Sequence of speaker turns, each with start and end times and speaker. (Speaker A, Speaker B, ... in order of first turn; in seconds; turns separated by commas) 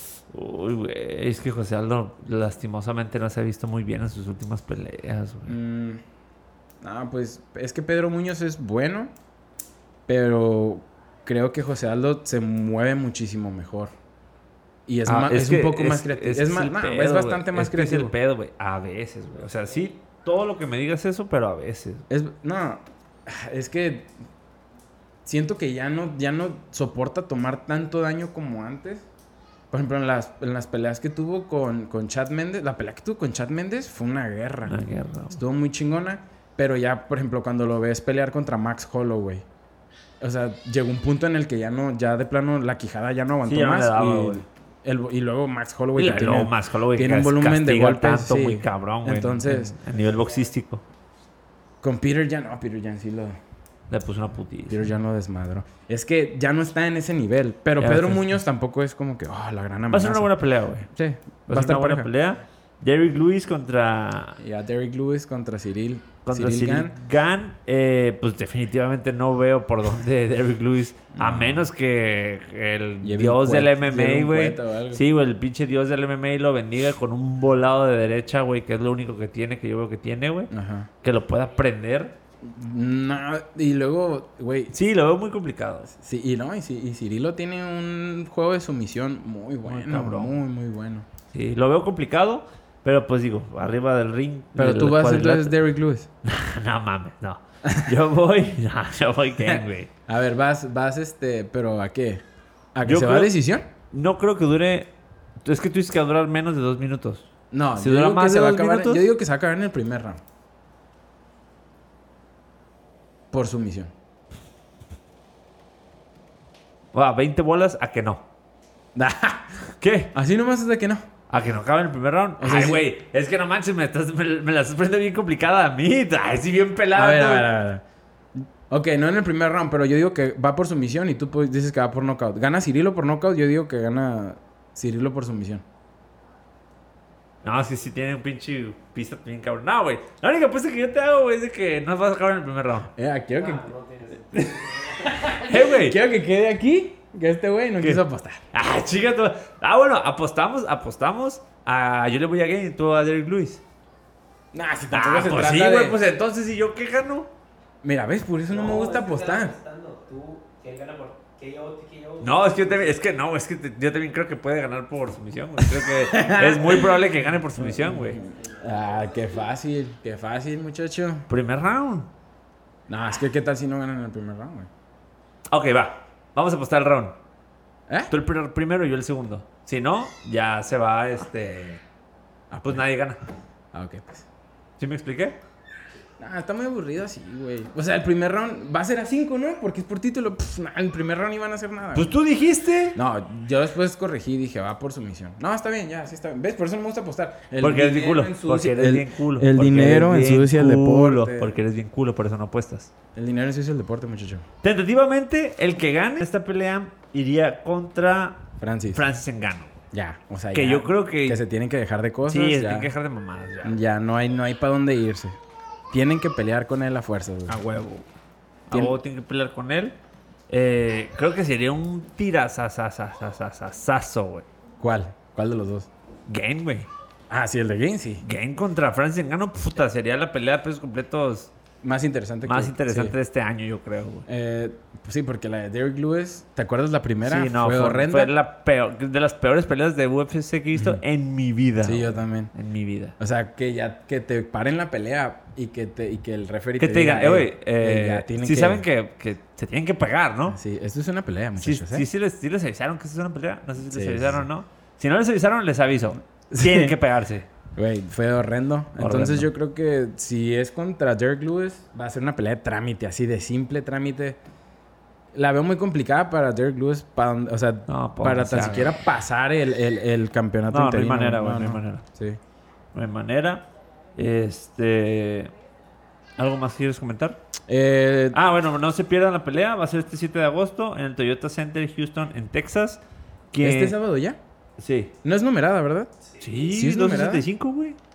Speaker A: 0.3-5.6, Speaker B: 5.5-6.0, Speaker B: 6.8-9.1, Speaker B: 10.1-13.9, Speaker B: 14.9-18.1, Speaker A: 15.1-22.1, Speaker C: 19.4-19.9, Speaker B: 22.1-24.1, Speaker B: 25.2-29.1, Speaker B: 29.7-39.5, Speaker A: 34.7-35.4, Speaker B: 40.2-49.8, Speaker A: 43.5-44.4, Speaker A: 46.0-50.8, Speaker B: 51.8-53.4, Speaker A: 53.9-54.9, Speaker B: 54.7-60.3, Speaker A: 57.8-58.4, Speaker A: 59.9-60.9, Speaker B: 60.9-62.1, Speaker A: 61.5-64.4, Speaker B: 64.4-67.0, Speaker A: 66.2-80.5, Speaker B: 71.1-71.7, Speaker B: 73.0-75.0, Speaker B: 80.5-80.9, Speaker A: 81.0-82.1, Speaker B: 82.4-84.7, Speaker A: 84.7-85.9, Speaker B: 85.9-91.1, Speaker A: 89.7-90.3, Speaker A: 91.3-95.6, Speaker B: 94.6-96.1, Speaker A: 96.2-99.9, Speaker B: 97.7-97.9, Speaker B: 99.5-102.2, Speaker B: 102.8-103.7, Speaker A: 102.8-103.3, Speaker A: 103.9-104.9, Speaker A: 105.4-109.0, Speaker B: 107.5-110.2, Speaker B: 113.3-113.9, Speaker A: 116.9-118.2, Speaker B: 119.0-119.6, Speaker A: 119.8-120.1, Speaker B: 120.1-121.0, Speaker A: 121.3-127.5, Speaker B: 122.4-122.8, Speaker B: 127.0-127.8, Speaker B: 128.4-135.7, Speaker A: 137.4-142.9, Speaker B: 143.0-143.7, Speaker C: 143.4-145.5, Speaker B: 144.3-148.4, Speaker A: 145.5-146.0, Speaker A: 147.8-153.6, Speaker B: 154.5-156.0, Speaker A: 154.9-157.3, Speaker B: 157.8-159.6, Speaker C: 158.5-163.1, Speaker A: 162.2-168.2, Speaker B: 165.8-167.0, Speaker B: 167.6-171.3, Speaker C: 167.9-169.5, Speaker A: 171.3-172.1, Speaker B: 172.9-174.7, Speaker A: 175.5-177.2, Speaker A: 178.1-181.8, Speaker B: 182.5-182.9, Speaker A: 182.6-183.2, Speaker B: 183.7-184.3, Speaker A: 184.8-185.4, Speaker B: 186.2-192.1, Speaker A: 191.9-193.0, Speaker B: 192.9-201.6, Speaker A: 197.6-202.9, Speaker B: 203.2-204.5, Speaker A: 204.6-209.8, Speaker B: 208.6-209.0, Speaker B: 209.9-212.9, Speaker A: 210.5-211.4, Speaker A: 212.2-213.8, Speaker B: 213.6-215.4, Speaker B: 215.9-217.6, Speaker A: 217.5-218.1, Speaker A: 218.7-220.0, Speaker B: 218.7-219.0, Speaker A: 220.5-224.5, Speaker B: 224.8-225.9, Speaker A: 226.3-226.9, Speaker B: 227.3-228.2, Speaker A: 228.2-231.5, Speaker B: 231.8-233.2, Speaker A: 232.4-234.3, Speaker B: 234.3-238.3, Speaker A: 237.2-243.2, Speaker B: 240.7-241.0, Speaker B: 241.8-242.5, Speaker B: 243.2-248.9, Speaker A: 246.8-250.6, Speaker B: 250.5-252.1, Speaker A: 251.6-257.5, Speaker B: 253.9-254.4, Speaker B: 256.5-257.0, Speaker B: 257.8-264.4, Speaker A: 259.0-259.5, Speaker B: 265.3-272.4, Speaker A: 267.9-269.0, Speaker A: 270.7-272.1, Speaker A: 272.9-275.5, Speaker A: 276.4-277.4, Speaker B: 277.7-278.4, Speaker A: 278.3-284.0, Speaker B: 283.6-284.4, Speaker A: 284.8-285.1, Speaker B: 285.2-287.4, Speaker A: 286.4-288.0